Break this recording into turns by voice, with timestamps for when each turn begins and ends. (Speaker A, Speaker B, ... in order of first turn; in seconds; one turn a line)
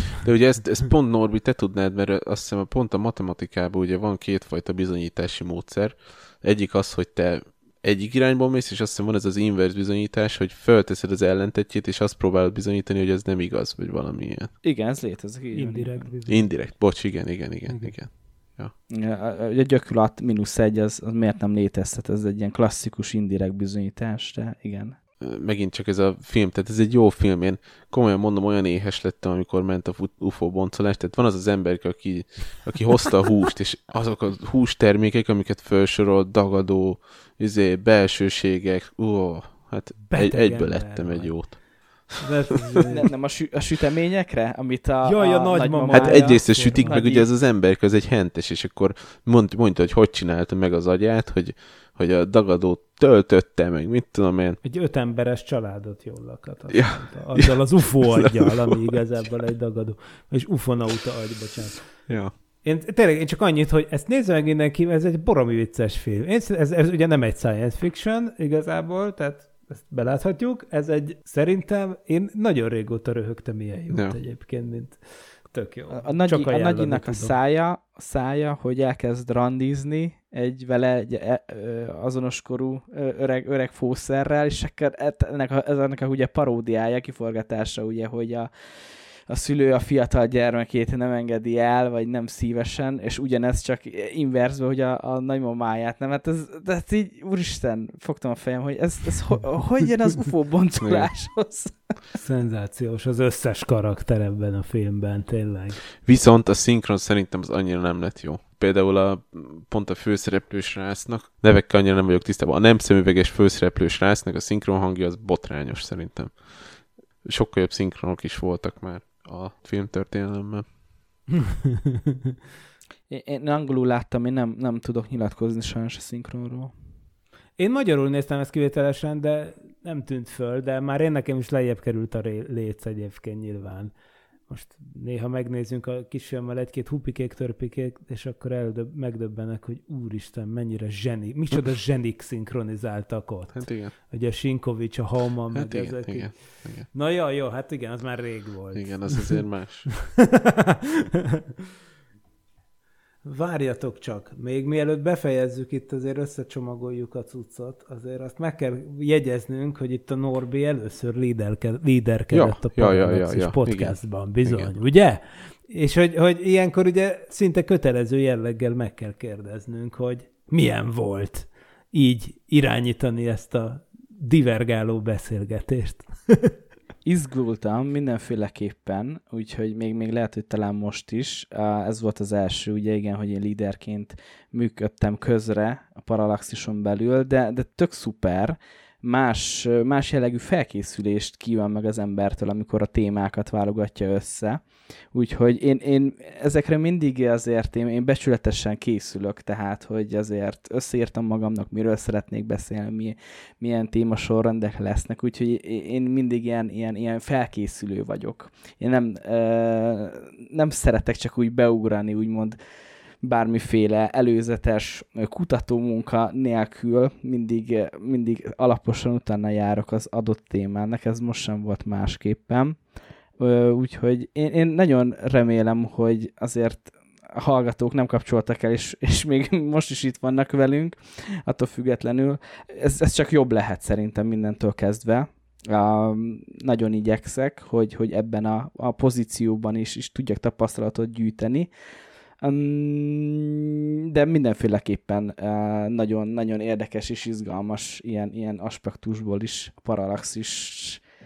Speaker A: 0.2-14.5
Speaker B: 14.6-16.1
Speaker C: 15.5-16.5
Speaker A: 16.2-18.7
Speaker C: 17.7-17.9
Speaker B: 18.9-25.0
Speaker A: 25.2-42.8
Speaker C: 40.1-41.5
Speaker C: 42.2-43.1
Speaker B: 42.9-47.3
Speaker C: 45.0-47.0
Speaker A: 45.9-54.6
Speaker C: 54.6-61.9
Speaker A: 56.7-58.8
Speaker C: 62.6-77.3
Speaker A: 73.9-74.2
Speaker B: 75.9-88.5
Speaker B: 89.3-101.7
Speaker A: 100.8-101.1
Speaker C: 102.1-105.8
Speaker A: 106.0-120.7
Speaker C: 121.7-122.1
Speaker B: 123.1-126.7
Speaker C: 127.6-133.9
Speaker C: 134.5-150.9
Speaker A: 143.5-143.9
Speaker A: 145.5-146.9
Speaker A: 148.7-149.9
Speaker C: 153.2-176.5
Speaker A: 162.3-164.7
Speaker B: 177.0-194.6
Speaker B: 195.1-212.6
Speaker B: 213.2-222.8
Speaker B: 223.4-241.7
Speaker B: 242.4-251.0